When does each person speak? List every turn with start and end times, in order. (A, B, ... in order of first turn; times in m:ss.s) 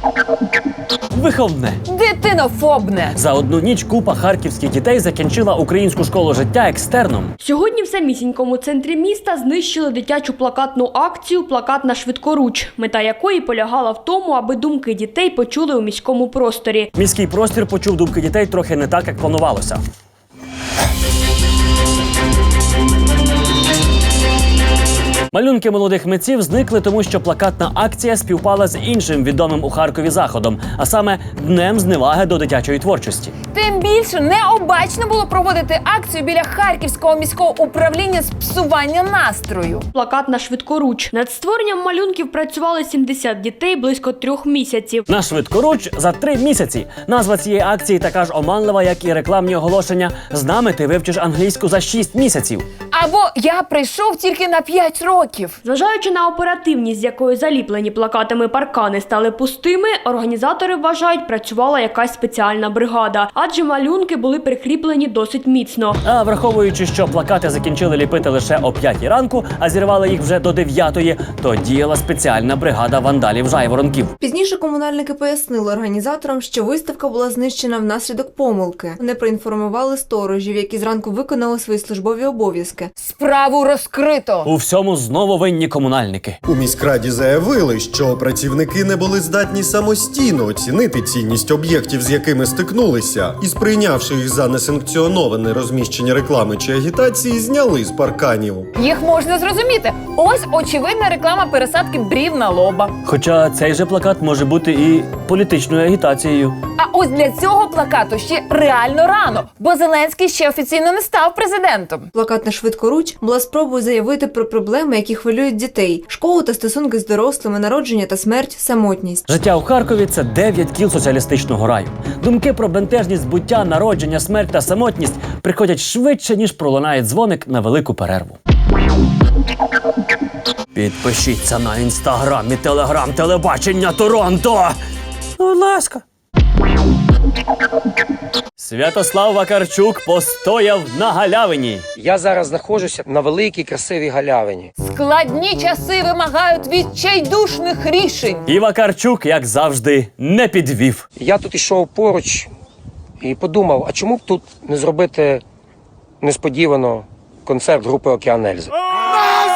0:01.1-0:01.8 A
0:01.9-0:03.2 B
0:03.1-0:07.3 A
0:07.4-0:16.9 C
0:17.0-0:19.8 A
0:25.3-0:33.3 A
0:33.5-0:39.8 B
0:39.9-0:45.0 C
0:45.1-0:52.6 A
0:52.9-0:55.6 B
0:55.6-1:06.0 C
1:06.0-1:14.1 A
1:14.2-1:22.9 D
1:23.0-1:24.5 B
1:24.4-1:26.4 A
1:26.4-1:38.7 E
1:38.8-1:43.0 B
1:43.0-1:46.6 A
1:46.8-1:52.1 B
1:52.1-1:59.2 D
1:59.3-2:08.4 A
2:10.8-2:14.8 A
2:15.4-2:16.0 A
2:18.6-2:21.8 A
2:22.0-2:24.7 F
2:24.8-2:28.4 B
2:28.5-2:31.0 A
2:31.2-2:32.5 F
2:33.2-2:35.4 F
2:36.2-2:38.7 F